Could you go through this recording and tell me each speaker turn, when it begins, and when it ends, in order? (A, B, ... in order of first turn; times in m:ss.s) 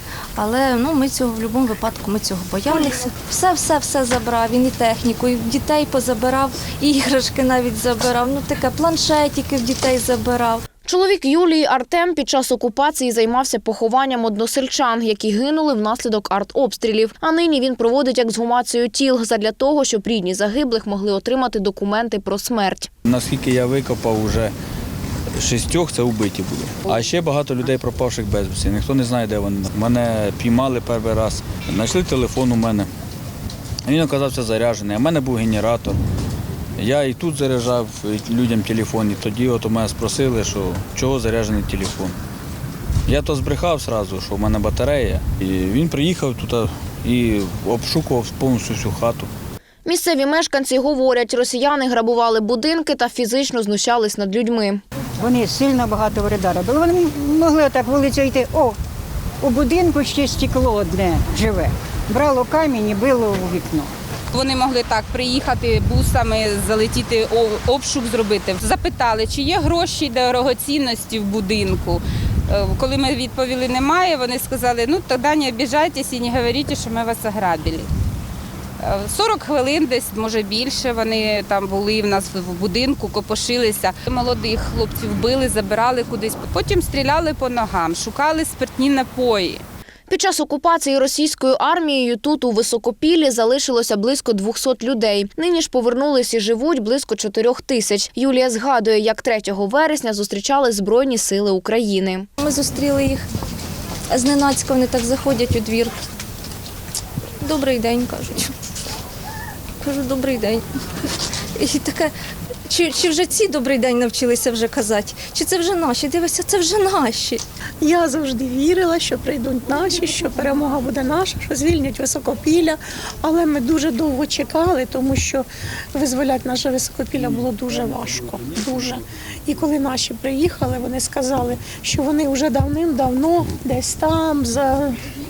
0:00.4-0:10.6 A
0:10.8-0:22.9 B
0:23.1-0:24.5 C
0:25.4-0:32.9 C
0:33.9-0:36.0 C
0:36.8-0:42.2 C
0:43.1-0:49.3 C
0:49.8-0:54.8 B
0:55.2-0:58.7 D
0:59.4-1:03.9 D
1:04.3-1:17.9 E
1:18.8-1:29.6 E
1:30.1-1:42.3 B
1:42.4-1:43.2 A
1:44.1-1:46.0 A
1:47.4-1:48.5 A
1:49.8-1:50.6 A
1:51.6-1:52.1 A
1:52.7-1:57.4 A
1:57.8-2:14.9 F